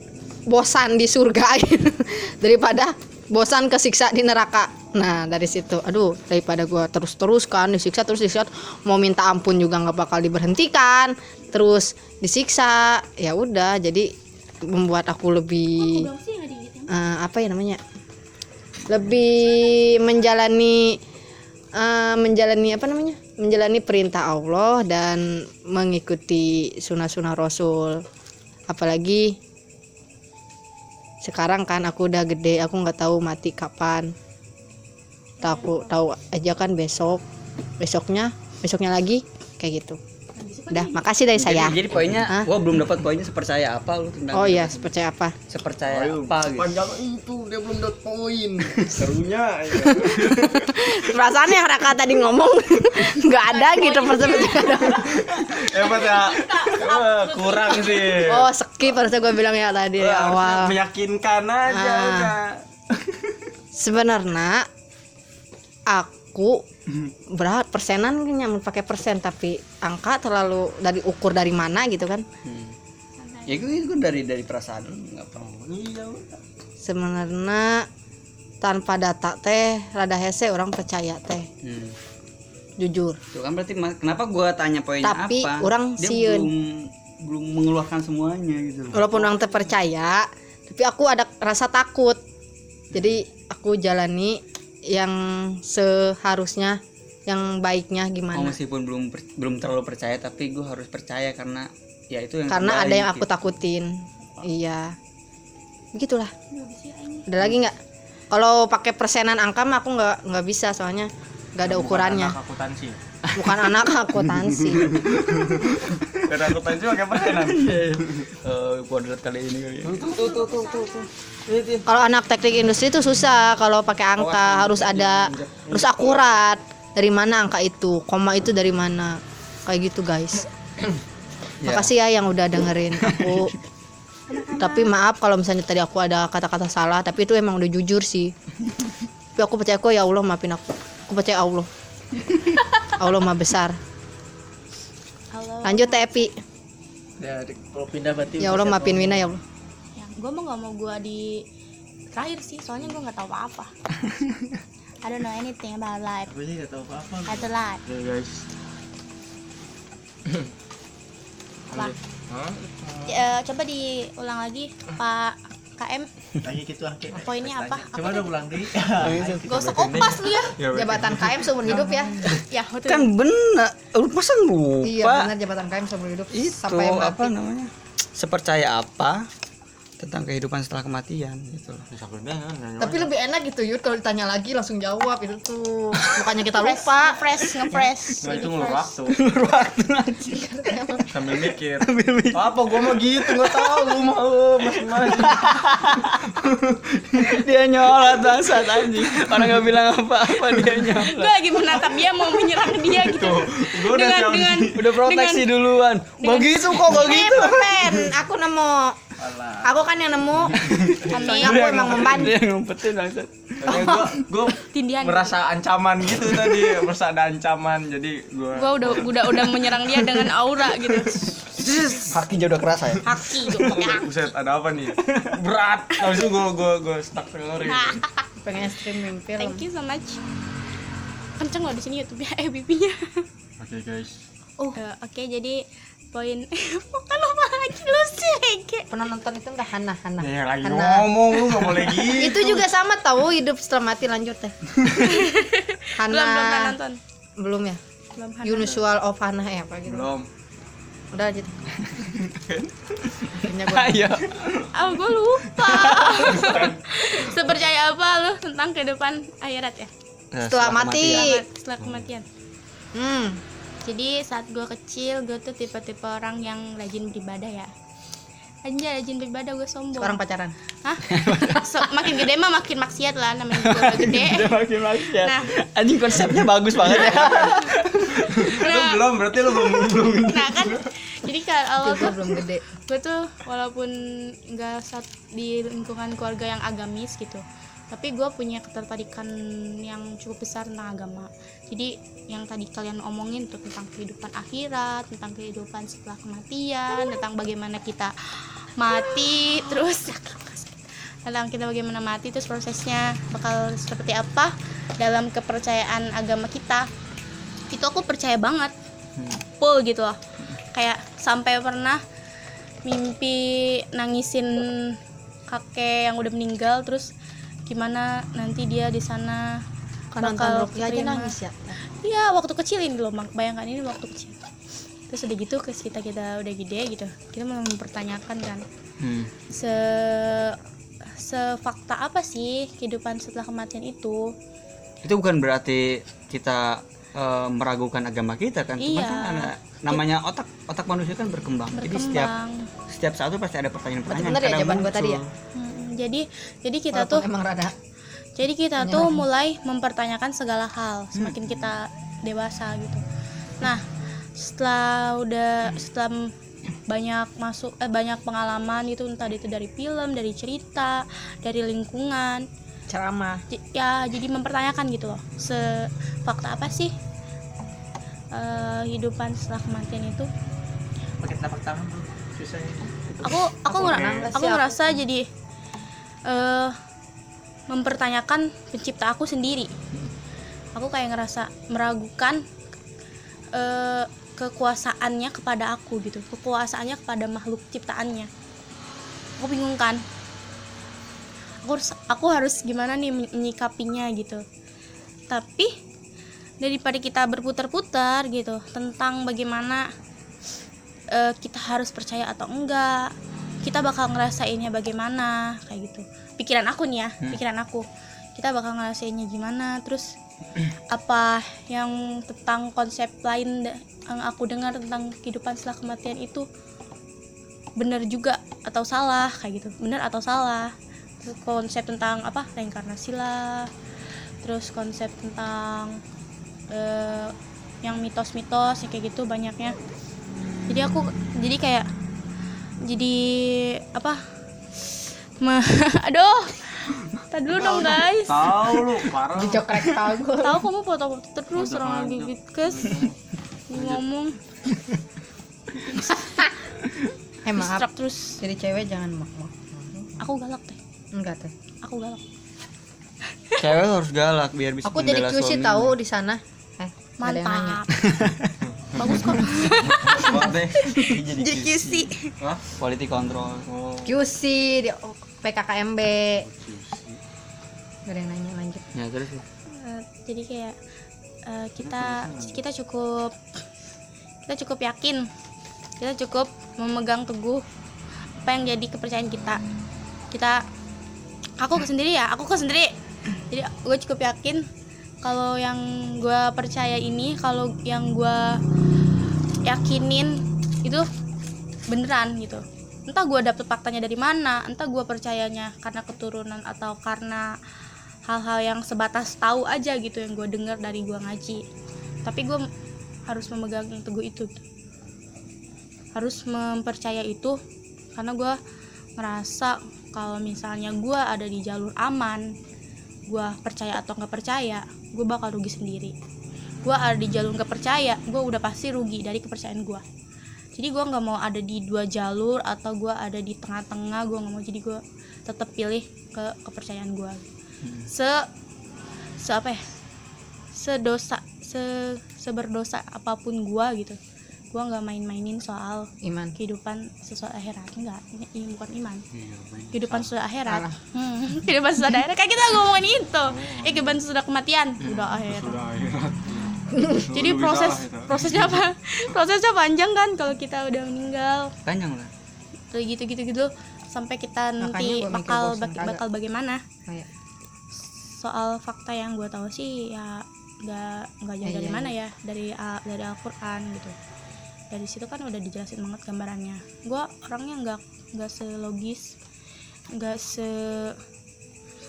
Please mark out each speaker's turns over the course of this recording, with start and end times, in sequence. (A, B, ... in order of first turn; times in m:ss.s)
0:00.5-0:14.1 A
0:14.7-0:16.0 A
0:15.8-0:17.0 B
0:16.9-0:17.8 A
0:18.9-0:21.0 A
0:21.8-0:28.0 A
0:28.7-0:29.4 A
0:31.2-0:34.1 A
0:35.4-0:36.0 B
0:35.4-0:37.2 A
0:37.8-0:40.0 A
0:40.4-0:41.0 B
0:40.7-0:42.5 A
0:41.4-0:44.9 C
0:44.3-0:45.3 A
0:45.5-0:46.8 C
0:45.8-0:50.9 D
0:48.6-0:49.0 C
0:50.2-0:55.2 A
0:53.3-0:58.3 B
0:55.0-0:58.5 D
0:58.2-1:00.8 A
0:59.9-1:03.4 D
1:01.7-1:02.3 A
1:03.7-1:04.7 A
1:05.9-1:06.6 A
1:07.3-1:12.2 A
1:12.4-1:12.7 C
1:13.2-1:13.6 B
1:13.5-1:15.4 C
1:15.3-1:16.4 D
1:16.8-1:17.9 A
1:18.6-1:21.5 A
1:21.6-1:22.0 C
1:22.8-1:23.2 A
1:23.3-1:29.4 C
1:25.0-1:26.5 A
1:28.9-1:32.2 A
1:32.9-1:38.6 A
1:38.3-1:43.3 C
1:42.5-1:45.0 A
1:45.9-1:46.3 A
1:46.5-1:47.3 B
1:47.3-1:47.8 A
1:48.3-1:52.4 A
1:51.6-1:53.0 D
1:53.4-1:54.9 A
1:54.8-2:00.1 C
1:55.0-1:58.3 D
1:59.8-2:01.8 D
2:00.0-2:01.1 B
2:01.9-2:10.5 A
2:04.2-2:06.4 D
2:11.6-2:11.9 C
2:11.6-2:13.5 A
2:13.0-2:13.5 C
2:14.3-2:14.9 B
2:14.6-2:18.3 A
2:19.4-2:21.7 A
2:23.0-2:23.8 A
2:25.3-2:26.3 B
2:25.6-2:26.3 A
2:27.2-2:29.3 E
2:28.4-2:29.4 A
2:30.0-2:31.4 B
2:32.1-2:33.7 B
2:34.0-2:34.5 C
2:35.0-2:36.3 B
2:36.3-2:37.5 E
2:37.2-2:37.8 B
2:37.9-2:38.4 D
2:41.7-2:42.6 D
2:42.8-2:43.2 E
2:43.0-2:46.1 B
2:46.4-2:49.4 E
2:47.1-2:48.4 B
2:49.0-2:49.8 C
2:49.0-2:51.5 D
2:49.5-2:50.5 B
2:50.3-2:52.2 A
2:51.7-2:53.1 B
2:52.8-2:55.3 C
2:54.8-2:57.3 A
2:56.3-2:59.3 C
3:00.0-3:01.8 C
3:01.9-3:03.1 D
3:02.8-3:08.9 A
3:06.6-3:08.5 B
3:07.7-3:09.2 D
3:09.1-3:10.4 C
3:10.3-3:11.1 A
3:11.1-3:15.7 D
3:11.8-3:14.0 C
3:14.8-3:16.3 C
3:16.2-3:17.4 D
3:17.1-3:21.4 C
3:19.0-3:19.7 D
3:20.9-3:25.5 B
3:22.8-3:24.8 D
3:24.7-3:27.7 C
3:26.2-3:27.1 B
3:26.2-3:29.0 A
3:26.4-3:28.1 D
3:29.2-3:29.8 D
3:29.6-3:32.4 A
3:30.6-3:32.3 D
3:30.7-3:34.1 C
3:31.1-3:31.7 B
3:33.6-3:42.1 D
3:33.7-3:34.1 A
3:34.7-3:35.4 B
3:38.5-3:41.4 B
3:41.6-3:43.1 C
3:43.0-3:44.0 B
3:43.4-3:48.0 D
3:45.0-3:45.3 C
3:47.6-3:48.2 B
3:48.4-3:49.6 A
3:49.4-3:50.2 B
3:51.4-3:53.2 B
3:53.6-3:54.2 D
3:54.7-3:58.9 B
3:58.9-4:04.6 A
4:00.2-4:02.7 D
4:05.0-4:07.0 B
4:06.0-4:06.8 A
4:07.4-4:07.8 A
4:08.2-4:08.8 B
4:08.4-4:10.1 A
4:09.8-4:10.3 D
4:11.1-4:11.6 A
4:11.8-4:14.4 C
4:13.4-4:14.1 A
4:14.7-4:19.9 B
4:15.6-4:17.4 D
4:20.3-4:21.3 C
4:20.5-4:21.4 A
4:21.0-4:22.2 B
4:22.9-4:23.4 A
4:23.8-4:27.7 B
4:28.6-4:30.2 B
4:30.0-4:30.5 A
4:30.8-4:35.5 B
4:31.0-4:32.0 C
4:33.5-4:38.2 C
4:36.3-4:40.9 D
4:36.9-4:37.7 B
4:38.3-4:42.4 B
4:41.8-4:42.6 A
4:42.9-4:43.9 B
4:44.5-5:06.9 B
5:07.7-5:08.7 B
5:09.2-5:09.4 C
5:09.5-5:10.2 B
5:10.7-5:12.0 B
5:12.8-5:15.0 B
5:15.5-5:17.1 B
5:17.7-5:19.6 B
5:20.1-5:21.8 A
5:20.2-5:21.3 B
5:22.0-5:24.4 B
5:25.1-5:28.6 B
5:29.0-5:29.3 C
5:29.5-5:30.6 B
5:31.1-5:34.3 B
5:35.0-5:42.3 C
5:38.8-5:40.0 B
5:41.7-5:42.7 B
5:42.9-5:45.2 C
5:44.1-5:45.2 A
5:45.6-5:47.2 B
5:46.9-5:47.7 A
5:48.4-5:53.0 B
5:48.8-5:49.2 A
5:51.1-5:51.4 C
5:54.4-5:56.3 B
5:56.9-6:02.5 B
6:02.9-6:03.4 A
6:03.5-6:06.9 B
6:08.3-6:10.3 B
6:11.2-6:13.0 E
6:13.2-6:15.3 B
6:13.6-6:15.0 A
6:13.8-6:14.3 D
6:16.2-6:16.8 B
6:17.7-6:19.7 B
6:20.7-6:22.4 B
6:23.5-6:28.3 B
6:29.4-6:30.0 B
6:31.6-6:34.4 B
6:35.3-6:35.7 B
6:36.6-6:39.9 B
6:41.1-6:43.1 B
6:43.6-6:47.8 B
6:48.4-6:50.1 B
6:50.9-6:56.5 B
6:57.8-7:03.7 B
7:04.4-7:06.0 B
7:06.7-7:09.8 B
7:10.7-7:11.9 B
7:12.9-7:14.2 B
7:14.8-7:18.8 B
7:17.5-7:19.8 D
7:19.3-7:20.6 A
7:20.3-7:23.1 B
7:21.5-7:23.2 D
7:23.7-7:24.4 B
7:23.7-7:24.0 D
7:26.1-7:26.5 A
7:27.4-7:27.8 A
7:27.6-7:28.4 B
7:28.4-7:30.2 A
7:30.2-7:30.8 B
7:31.1-7:31.5 A
7:31.8-7:32.2 B
7:33.6-7:36.0 C
7:34.8-7:37.8 A
7:37.2-7:37.9 B
7:38.0-7:38.5 C
7:38.6-7:39.1 D
7:39.0-7:40.5 B
7:39.8-7:41.6 D
7:40.2-7:42.1 C
7:40.2-7:40.5 A
7:41.5-7:42.1 B
7:41.5-7:42.0 A
7:42.4-7:42.7 D
7:42.8-7:43.6 C
7:43.7-7:44.2 D
7:44.0-7:46.4 A
7:46.4-7:47.2 D
7:48.1-7:48.8 A
7:48.9-7:49.4 C
7:49.7-7:50.7 B
7:51.4-7:53.4 B
7:51.8-7:52.6 D
7:54.5-7:55.2 B
7:56.0-7:57.6 B
7:58.4-7:59.6 B
8:00.3-8:00.6 B
8:01.6-8:02.9 B
8:03.5-8:04.6 B
8:05.2-8:08.4 B
8:09.6-8:11.0 B
8:11.9-8:17.5 B
8:18.3-8:21.6 B
8:22.2-8:22.6 B
8:23.3-8:24.5 B
8:26.1-8:27.6 B
8:28.2-8:28.6 B
8:29.2-8:32.5 B
8:33.3-8:36.1 B
8:36.8-8:40.0 B
8:40.8-8:47.4 B
8:47.8-8:48.1 C
8:48.1-8:48.4 B
8:49.4-8:49.8 B
8:50.7-8:54.2 B
8:54.7-8:59.2 B
8:56.2-8:56.5 A
8:59.3-9:00.2 D
8:59.9-9:05.8 B
9:00.7-9:01.0 A
9:03.5-9:04.2 D
9:05.4-9:08.7 D
9:07.3-9:11.7 B
9:11.8-9:12.3 C
9:12.9-9:16.8 B
9:14.8-9:16.2 A
9:18.0-9:24.1 B
9:21.6-9:22.1 A
9:24.9-9:29.3 B
9:30.1-9:31.2 B